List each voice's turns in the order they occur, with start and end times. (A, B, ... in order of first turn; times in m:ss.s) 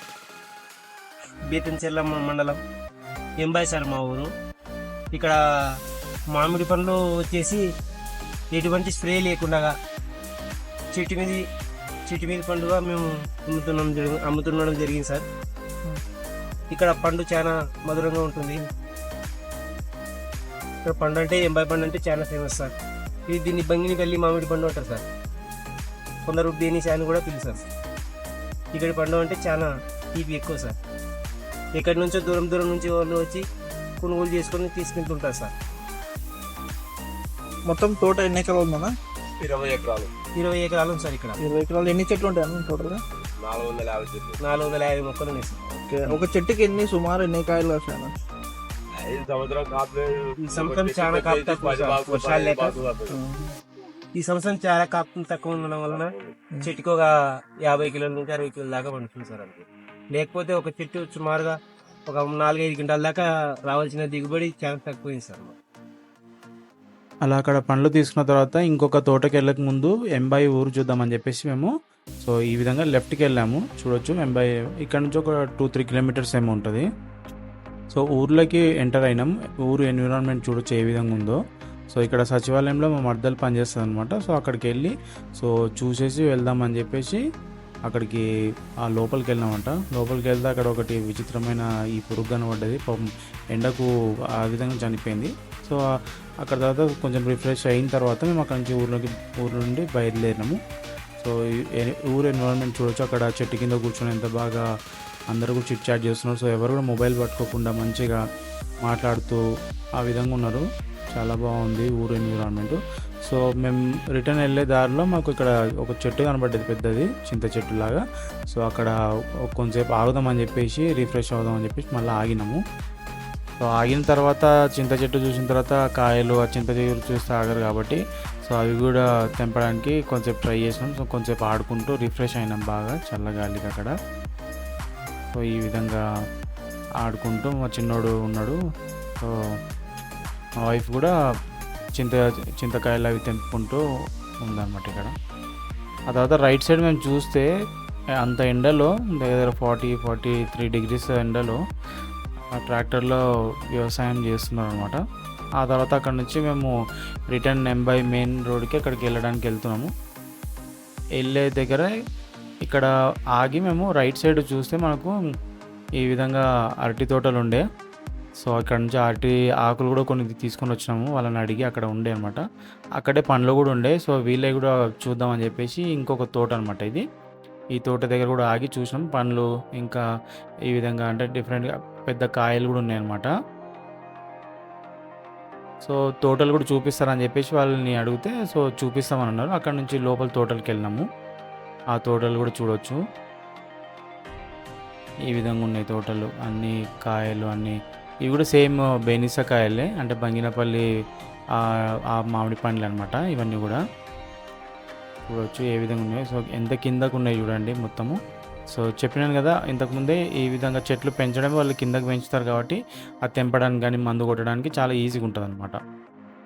0:01.5-0:02.6 A
0:03.4-0:04.3 A
0:05.1-0:05.4 A
0:06.3-0:07.6 A
0:08.5-0:09.7 A
0:10.9-0:11.4 A
0:12.1-0:15.2 A
0:16.7-0:18.7 A
0:20.8-0:22.7 A
0:23.3-0:25.0 A
0:26.3-0:27.6 A
0:28.7-0:30.8 A
0:31.8-0:33.4 A
0:34.0-0:35.5 A
0:37.7-0:38.9 B
0:39.4-0:40.1 C
0:40.4-0:41.4 A
0:41.4-0:43.0 B
0:43.4-0:44.4 C
0:44.4-0:46.2 A
0:45.8-0:48.1 B
0:49.0-0:53.2 C
0:50.4-0:52.8 A
0:53.1-0:53.5 B
0:54.2-0:57.1 A
0:55.9-0:56.4 C
0:57.6-1:01.6 A
1:02.1-1:05.6 A
1:07.2-1:16.9 D
1:17.9-1:21.4 D
1:21.9-1:27.2 D
1:27.9-1:28.2 D
1:28.8-1:35.8 D
1:36.4-1:40.6 D
1:41.2-1:44.7 D
1:45.3-1:48.2 D
1:48.8-1:49.4 D
1:50.0-1:58.9 D
1:59.5-2:02.6 D
2:03.6-2:13.9 D
2:15.4-2:16.0 D
2:17.0-2:18.6 D
2:20.6-2:21.1 D
2:22.0-2:23.8 D
2:24.4-2:25.1 D
2:26.1-2:27.5 D
2:28.2-2:31.6 D
2:32.4-2:35.0 D
2:35.6-2:36.7 D
2:37.3-2:39.9 D
2:41.2-2:41.9 D
2:42.6-2:45.2 D
2:46.0-2:47.6 D
2:48.4-2:52.4 D
2:53.0-2:57.0 D
2:57.8-3:00.0 D
3:00.7-3:03.3 D
3:05.8-3:11.1 D
3:11.9-3:13.0 D
3:15.3-3:20.8 D
3:22.1-3:23.8 D
3:25.3-3:28.2 D
3:28.7-3:35.8 D